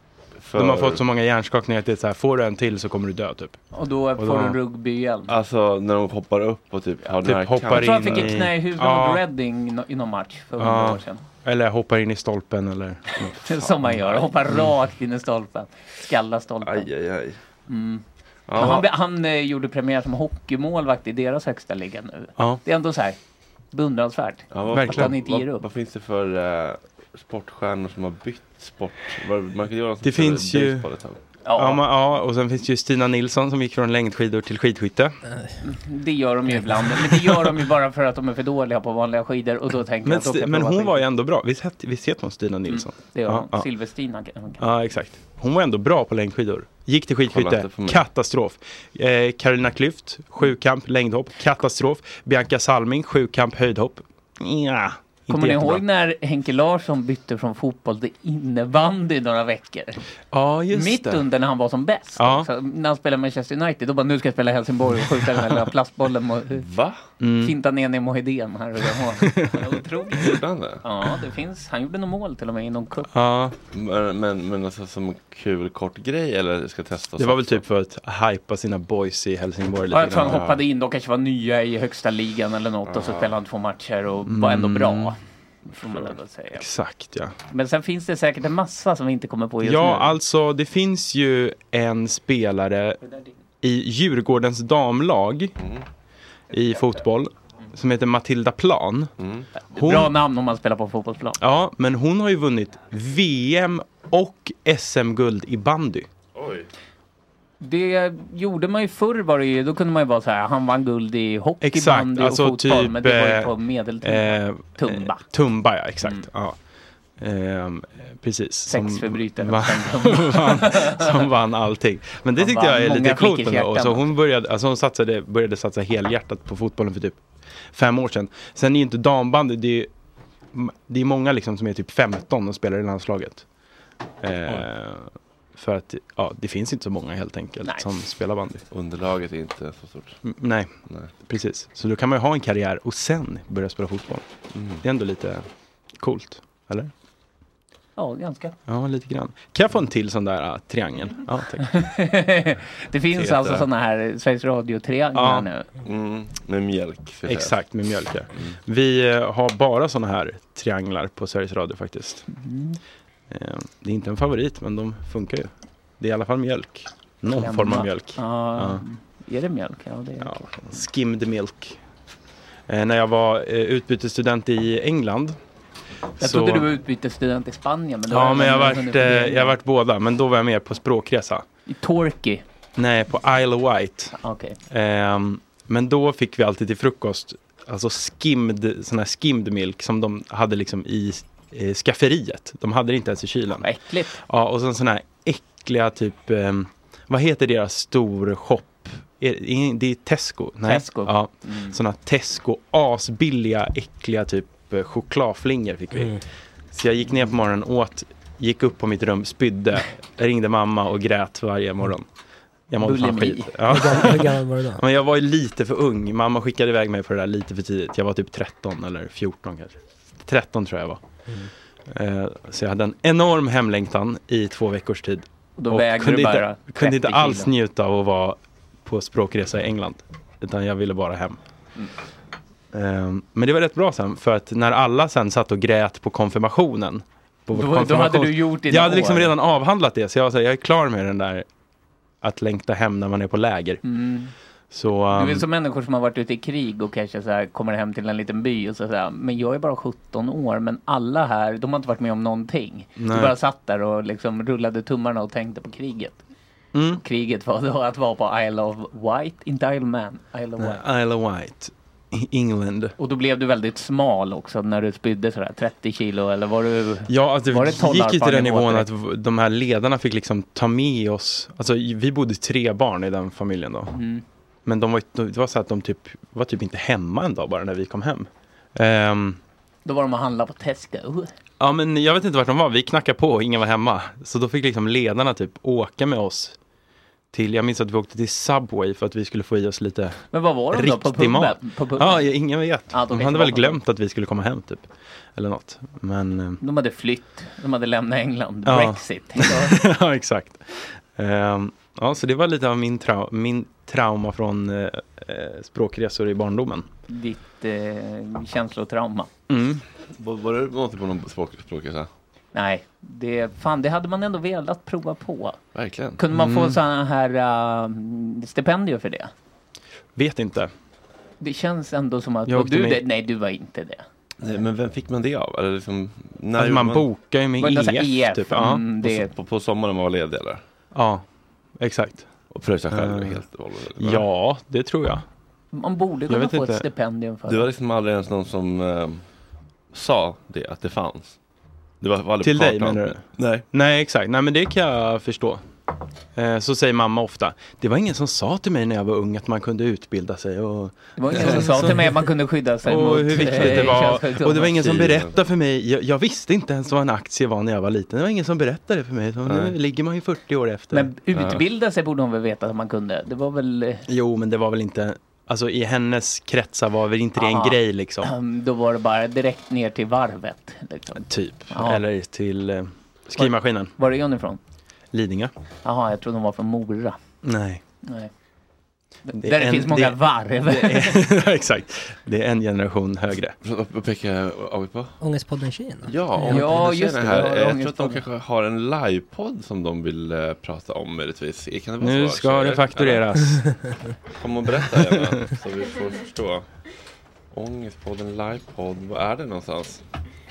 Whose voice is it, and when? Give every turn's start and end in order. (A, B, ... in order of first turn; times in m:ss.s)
0:00.4-0:01.0 A
0:00.5-0:03.6 B
0:03.7-0:05.3 C
0:04.2-0:04.6 B
0:05.3-0:08.3 A
0:07.2-0:09.2 B
0:07.7-0:11.2 C
0:10.6-0:13.6 B
0:13.4-0:16.9 C
0:16.6-0:17.4 A
0:17.7-0:18.0 C
0:18.5-0:18.9 A
0:18.6-0:23.2 C
0:23.7-0:25.6 C
0:24.5-0:31.2 A
0:24.7-0:25.1 B
0:30.0-0:30.8 B
0:31.4-0:31.8 C
0:31.6-0:35.2 B
0:35.6-0:41.0 C
0:40.0-0:43.7 B
0:42.7-0:44.6 C
0:44.6-0:55.8 B
0:47.3-0:48.0 A
0:55.3-1:00.0 C
1:00.3-1:01.2 B
1:00.7-1:06.6 C
1:02.2-1:02.5 B
1:06.6-1:07.0 A
1:07.2-1:07.5 B
1:07.4-1:13.1 C
1:09.2-1:09.6 B
1:10.2-1:10.8 A
1:13.1-1:13.5 B
1:13.7-1:17.6 A
1:17.2-1:20.4 B
1:19.9-1:25.2 C
1:20.2-1:20.6 A
1:22.9-1:23.3 A
1:24.3-1:25.1 B
1:25.7-1:26.6 C
1:26.5-1:27.3 B
1:27.5-1:30.1 C
1:29.6-1:33.0 B
1:33.6-1:35.5 B
1:36.5-1:39.1 B
1:39.2-1:39.5 A
1:39.7-1:41.4 C
1:39.7-1:40.1 B
1:41.4-1:46.1 B
1:46.3-1:46.7 A
1:47.6-1:55.2 C
1:51.6-1:56.6 B
1:57.2-2:07.2 B
1:58.7-2:01.2 C
2:02.4-2:04.0 C
2:07.7-2:09.9 B
2:10.5-2:13.4 B
2:14.2-2:18.6 B
2:18.7-2:20.2 A
2:20.2-2:20.7 B
2:21.2-2:24.2 B
2:24.5-2:24.8 A
2:24.8-2:25.4 B
2:26.0-2:26.9 B
2:28.0-2:28.6 C
2:28.7-2:31.8 B
2:31.6-2:35.7 C
2:33.1-2:33.6 A
2:35.1-2:35.5 B
2:35.8-2:37.5 A
2:37.3-2:42.2 B
2:42.3-2:42.8 C
2:43.3-2:48.8 B
2:47.3-2:50.4 C
2:50.2-2:51.8 B
2:52.7-2:55.4 B
2:56.2-2:56.7 B
2:56.2-2:59.6 C
2:58.1-3:01.4 B
3:01.7-3:02.4 C
3:02.8-3:04.1 B
3:04.2-3:04.6 C
3:04.7-3:13.7 B
3:13.6-3:14.2 C
3:14.2-3:26.2 B
3:20.6-3:21.8 C
3:26.7-3:32.0 B
3:32.7-3:41.0 B
3:32.8-3:34.1 C
3:33.7-3:34.8 D
3:41.9-3:51.4 B
3:45.6-3:47.5 C
3:52.7-4:01.4 B
3:57.5-3:59.4 C
4:02.2-4:03.8 B
4:03.8-4:04.3 C
4:04.7-4:05.4 B
4:05.1-4:16.2 C
4:13.0-4:13.3 B
4:16.7-4:17.0 B
4:17.0-4:20.8 C
4:20.6-4:22.9 B
4:23.0-4:28.9 C
4:27.1-4:33.9 B
4:33.9-4:34.2 C
4:34.6-4:39.4 B
4:39.8-4:41.3 C
4:41.6-4:46.6 B
4:47.3-4:56.6 B
4:50.3-4:52.3 C
4:52.9-4:53.8 C
4:56.6-4:59.8 C
4:58.6-5:06.9 B
5:07.1-5:09.3 C
5:09.5-5:09.8 B
5:10.2-5:12.1 A
5:12.5-5:15.6 C
5:15.7-5:16.2 A
5:16.2-5:19.3 C
5:16.3-5:16.8 B
5:20.2-5:20.7 B
5:21.4-5:24.0 C
5:22.5-5:23.0 B
5:24.4-5:27.0 A
5:26.6-5:28.8 B
5:27.6-5:29.3 C
5:29.0-5:30.6 A
5:30.9-5:31.2 B
5:31.8-5:32.3 B
5:32.5-5:34.2 A
5:32.9-5:33.4 B
5:34.0-5:35.2 B
5:35.7-5:37.6 C
5:36.3-5:36.8 B
5:37.5-5:39.2 A
5:39.9-5:41.4 A
5:42.0-5:43.6 A
5:42.4-5:45.6 B
5:46.3-5:52.1 B
5:51.2-5:54.8 C
5:52.8-6:01.1 B
5:54.7-5:55.3 A
5:59.4-5:59.7 A
6:00.9-6:04.0 C
6:04.1-6:08.3 B
6:07.4-6:12.0 C
6:11.2-6:13.9 B
6:13.4-6:14.6 C
6:15.1-6:15.5 B
6:15.8-6:17.2 C
6:17.4-6:17.8 B
6:18.0-6:18.3 C
6:19.3-6:21.2 C
6:19.4-6:23.5 B
6:23.6-6:25.1 A
6:25.2-6:26.5 D
6:26.1-6:33.2 A
6:26.5-6:28.2 C
6:32.0-6:33.7 B
6:34.4-6:36.6 A
6:37.5-6:40.0 A